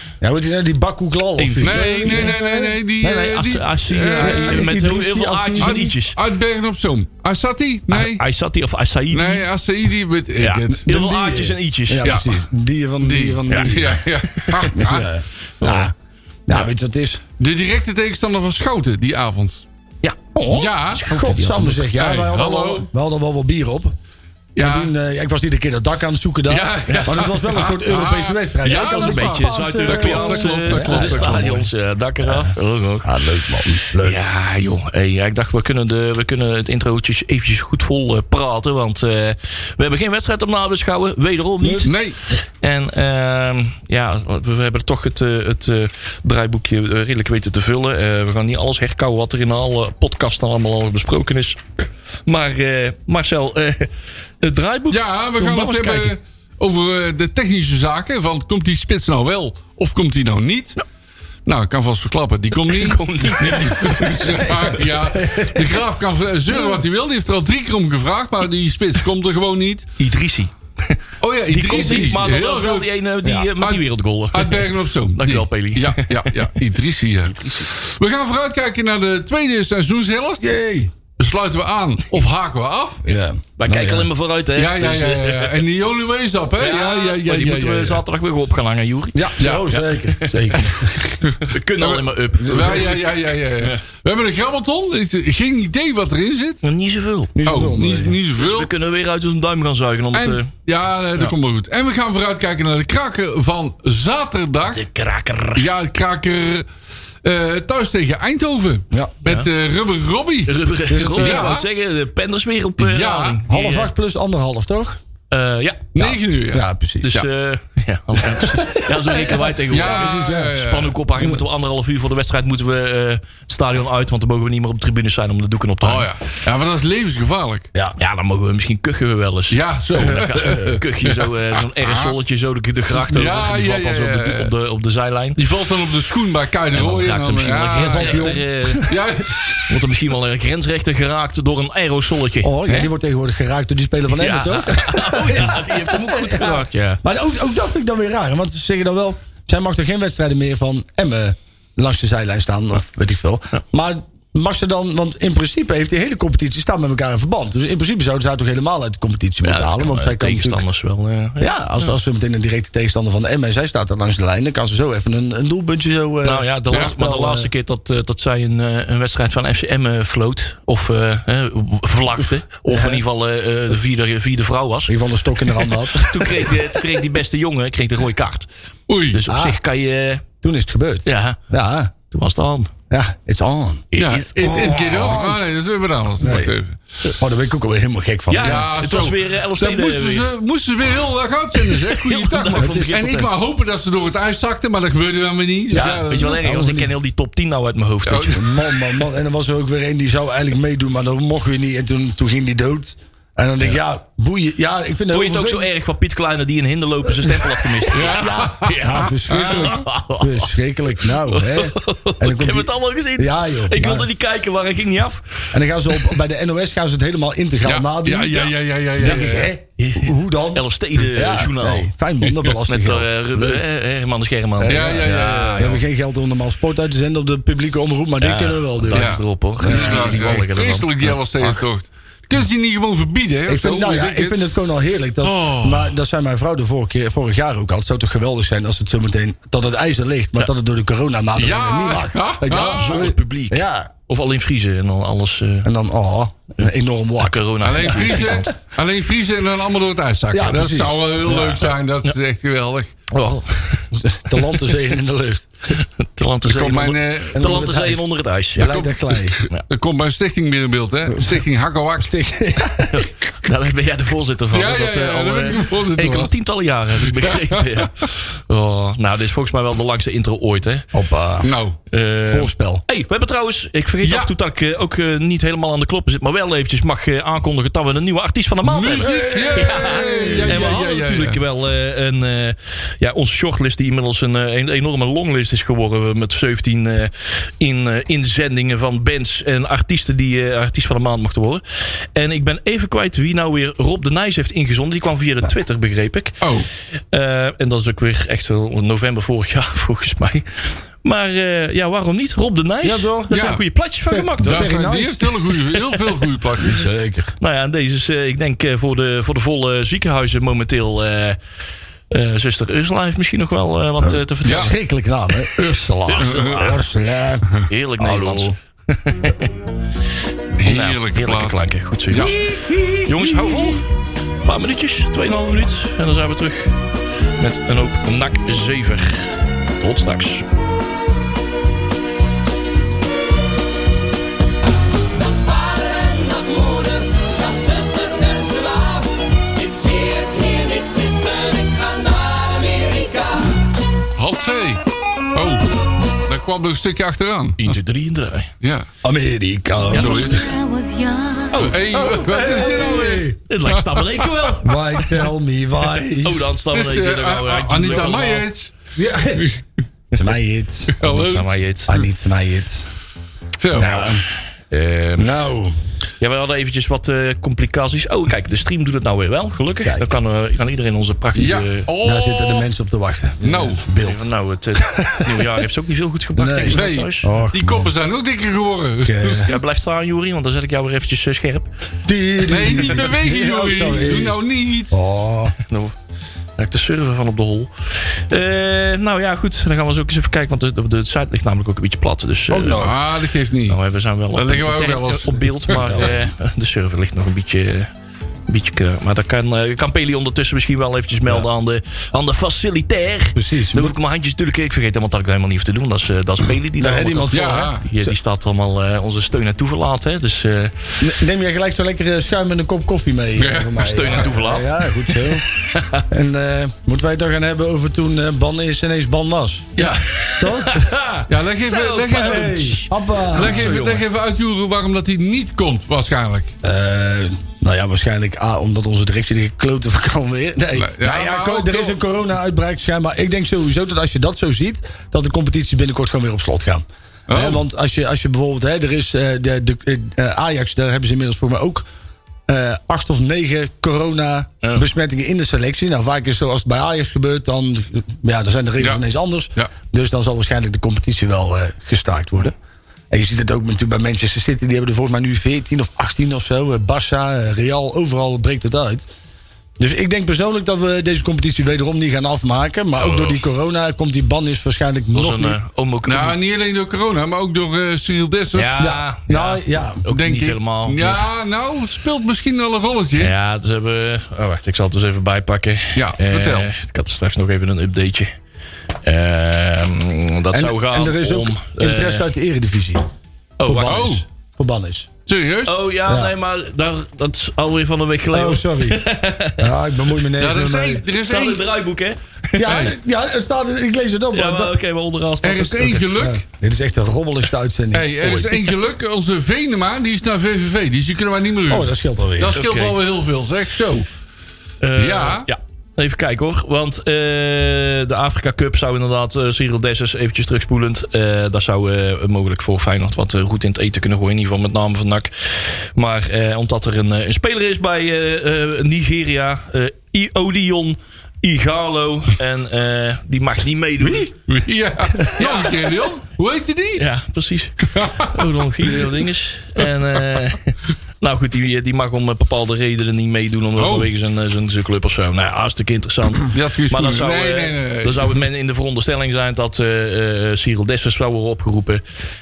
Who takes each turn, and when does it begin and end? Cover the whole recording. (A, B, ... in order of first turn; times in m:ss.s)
0:00.2-0:02.8 A
0:01.4-0:02.4 B
0:01.6-0:04.7 C
0:03.0-0:06.2 B
0:04.2-0:05.9 A
0:05.6-0:08.2 C
0:07.9-0:09.4 B
0:09.1-0:10.9 C
0:10.4-0:12.2 B
0:10.9-0:14.0 A
0:12.0-0:12.4 C
0:13.0-0:15.1 C
0:14.3-0:14.8 B
0:14.7-0:15.9 A
0:15.6-0:15.9 B
0:16.5-0:17.2 A
0:17.4-0:19.6 C
0:20.0-0:24.0 A
0:20.5-0:21.0 C
0:20.8-0:21.9 B
0:22.0-0:22.9 C
0:24.6-0:24.9 C
0:24.6-0:31.7 A
0:26.5-0:31.6 C
0:26.9-0:27.3 B
0:28.6-0:33.1 B
0:32.2-0:34.2 A
0:34.0-0:51.6 B
0:41.6-0:41.9 A
0:41.8-0:42.2 C
0:52.3-0:56.2 B
0:54.9-1:00.8 C
1:01.5-1:09.9 C
1:02.6-1:05.5 B
1:10.0-1:16.5 B
1:11.2-1:13.0 C
1:13.2-1:13.5 A
1:13.6-1:20.5 C
1:17.4-1:17.7 B
1:20.4-1:20.9 A
1:21.2-1:23.0 C
1:23.0-1:24.1 A
1:23.6-1:25.6 B
1:24.6-1:28.0 C
1:26.6-1:30.7 B
1:29.1-1:31.1 A
1:29.4-1:29.7 C
1:31.2-1:36.6 C
1:31.4-1:33.8 B
1:32.4-1:33.0 A
1:36.6-1:37.3 B
1:37.4-1:38.2 A
1:37.5-1:38.7 C
1:38.4-1:40.5 B
1:40.1-1:44.8 C
1:44.7-1:45.7 B
1:45.6-1:46.7 C
1:47.2-1:50.6 C
1:49.2-1:49.5 B
1:50.5-1:53.9 B
1:50.9-1:51.6 A
1:51.2-1:51.7 C
1:52.8-1:53.4 C
1:53.4-1:55.0 A
1:55.3-1:56.1 B
1:56.0-1:57.3 C
1:56.0-1:57.1 A
1:57.0-2:06.1 B
1:58.3-2:00.6 A
1:59.7-2:01.0 C
2:01.2-2:01.4 A
2:05.8-2:07.7 C
2:08.0-2:15.4 B
2:09.5-2:12.2 C
2:10.0-2:10.7 A
2:13.0-2:14.5 C
2:15.4-2:19.5 C
2:16.7-2:19.0 B
2:17.8-2:19.0 A
2:19.7-2:22.9 B
2:22.4-2:40.6 A
2:24.1-2:27.0 B
2:39.4-2:41.6 B
2:41.4-2:47.5 A
2:46.2-2:55.0 B
2:52.7-2:53.0 A
2:54.9-2:56.8 A
2:55.6-2:58.5 B
2:58.9-2:59.2 C
2:59.1-3:00.2 B
2:59.3-2:59.6 A
3:00.4-3:01.9 A
3:01.0-3:01.4 B
3:02.1-3:02.7 B
3:02.9-3:03.9 A
3:03.9-3:05.2 B
3:04.0-3:06.8 C
3:04.4-3:05.4 A
3:06.2-3:06.5 A
3:07.2-3:08.7 A
3:08.3-3:10.3 B
3:08.4-3:16.4 C
3:11.6-3:13.3 B
3:12.5-3:13.0 A
3:15.7-3:16.9 A
3:16.0-3:18.5 B
3:18.1-3:18.5 C
3:18.2-3:25.7 A
3:25.1-3:30.5 B
3:27.2-3:34.1 A
3:27.9-3:29.8 C
3:31.1-3:35.5 B
3:35.5-3:43.6 A
3:37.6-3:39.5 C
3:39.8-3:41.9 B
3:42.6-3:45.8 B
3:44.6-3:50.4 A
3:44.6-3:45.8 C
3:48.2-3:51.2 B
3:48.9-3:54.4 C
3:53.5-4:03.9 A
3:55.2-3:55.9 C
4:01.4-4:03.2 C
4:02.5-4:05.7 B
4:05.6-4:08.4 A
4:07.2-4:08.5 B
4:07.6-4:12.9 C
4:10.3-4:11.7 A
4:13.1-4:14.4 B
4:13.9-4:15.5 A
4:15.7-4:18.8 B
4:16.4-4:17.8 C
4:17.3-4:18.0 A
4:18.6-4:19.4 A
4:18.6-4:22.1 C
4:21.1-4:21.4 A
4:22.0-4:23.1 A
4:22.9-4:30.9 B
4:24.5-4:26.3 C
4:27.0-4:27.9 C
4:30.9-4:31.5 A
4:31.4-4:31.8 C
4:31.9-4:51.6 B
4:32.2-4:32.8 A
4:34.0-4:34.3 C
4:38.6-4:41.4 C
4:38.8-4:40.8 A
4:52.1-4:56.4 B
4:56.4-4:56.7 C
4:57.1-5:04.8 B
5:02.8-5:03.4 A
5:03.3-5:03.6 C
5:04.1-5:05.3 A
5:04.4-5:06.8 C
5:05.7-5:06.2 B
5:06.6-5:07.3 A
5:07.4-5:11.4 B
5:12.1-5:14.8 B
5:14.0-5:18.6 A
5:14.4-5:14.7 C
5:16.1-5:16.8 B
5:16.2-5:16.7 C
5:17.6-5:19.5 B
5:20.6-5:22.4 B
5:20.6-5:22.4 C
5:22.1-5:23.8 A
5:23.0-5:23.9 B
5:24.4-5:26.8 B
5:27.4-5:30.5 B
5:35.2-5:43.6 D
5:44.2-5:44.8 C
5:45.3-5:45.7 C
5:46.3-5:47.8 C
5:47.6-5:48.5 B
5:48.6-5:48.9 C
5:49.0-5:50.5 A
5:49.9-5:50.5 C
5:49.9-5:50.4 B
5:50.0-5:51.6 D
5:51.5-5:51.8 B
5:51.6-5:54.4 C
5:51.7-5:53.4 A
5:53.5-5:55.0 B
5:54.6-5:56.5 A
5:56.2-5:58.5 B
5:56.7-5:58.8 C
5:59.0-5:59.6 A
5:59.4-5:59.6 C
6:00.1-6:01.0 A
6:01.0-6:01.6 C
6:01.0-6:02.0 B
6:01.9-6:02.9 A
6:03.6-6:04.1 C
6:03.7-6:04.2 A
6:04.7-6:05.3 B
6:05.2-6:05.8 A
6:06.2-6:11.9 B
6:09.8-6:10.1 A
6:11.4-6:12.7 C
6:12.0-6:14.2 A
6:13.4-6:13.8 C
6:13.5-6:17.3 B
6:14.8-6:15.6 A
6:16.4-6:17.9 A
6:16.7-6:19.5 C
6:19.0-6:19.5 A
6:19.4-6:21.7 B
6:22.1-6:24.4 A
6:22.4-6:25.0 C
6:24.9-6:25.6 A
6:25.6-6:26.0 B
6:26.6-6:32.9 B
6:32.5-6:33.0 A
6:32.8-6:33.8 C
6:33.7-6:37.9 B
6:34.3-6:36.1 C
6:35.8-6:36.2 A
6:38.5-6:51.0 B
6:43.4-6:44.0 A
6:46.8-6:48.2 A
6:47.3-6:47.8 C
6:51.0-6:55.5 A
6:53.4-6:54.3 C
6:53.8-6:56.0 B
6:56.1-6:59.7 A
6:59.8-7:00.2 C
6:59.8-7:04.0 B
7:00.4-7:01.1 A
7:01.3-7:02.8 C
7:02.1-7:03.8 A
7:03.3-7:06.5 C
7:06.6-7:21.9 A
7:10.7-7:12.0 C
7:17.3-7:17.6 C
7:22.5-7:32.5 A
7:33.1-7:39.1 A
7:39.8-7:45.6 A
7:45.1-7:46.4 B
7:46.1-7:48.9 C
7:48.5-7:51.2 B
7:48.8-7:50.0 A
7:50.1-7:53.3 C
7:53.2-7:58.3 B
7:56.0-7:56.7 C
7:59.0-8:02.3 B
8:00.5-8:03.1 A
8:03.6-8:04.2 B
8:03.6-8:05.1 A
8:03.8-8:04.2 C
8:05.3-8:05.8 C
8:05.7-8:09.7 B
8:06.1-8:06.3 A
8:08.3-8:09.0 A
8:09.6-8:11.0 A
8:10.4-8:11.7 C
8:11.1-8:12.7 B
8:12.6-8:14.8 A
8:12.6-8:13.0 C
8:14.3-8:16.1 B
8:15.4-8:16.4 C
8:16.1-8:18.7 A
8:17.9-8:24.1 C
8:21.7-8:22.6 A
8:22.5-8:23.0 B
8:24.8-8:44.3 B
8:25.0-8:25.5 C
8:44.5-8:47.0 C
8:45.3-8:46.0 B
8:47.0-9:02.0 B
8:47.9-8:49.1 C
8:50.2-8:50.5 C
8:53.8-8:54.1 C
8:56.4-8:58.4 C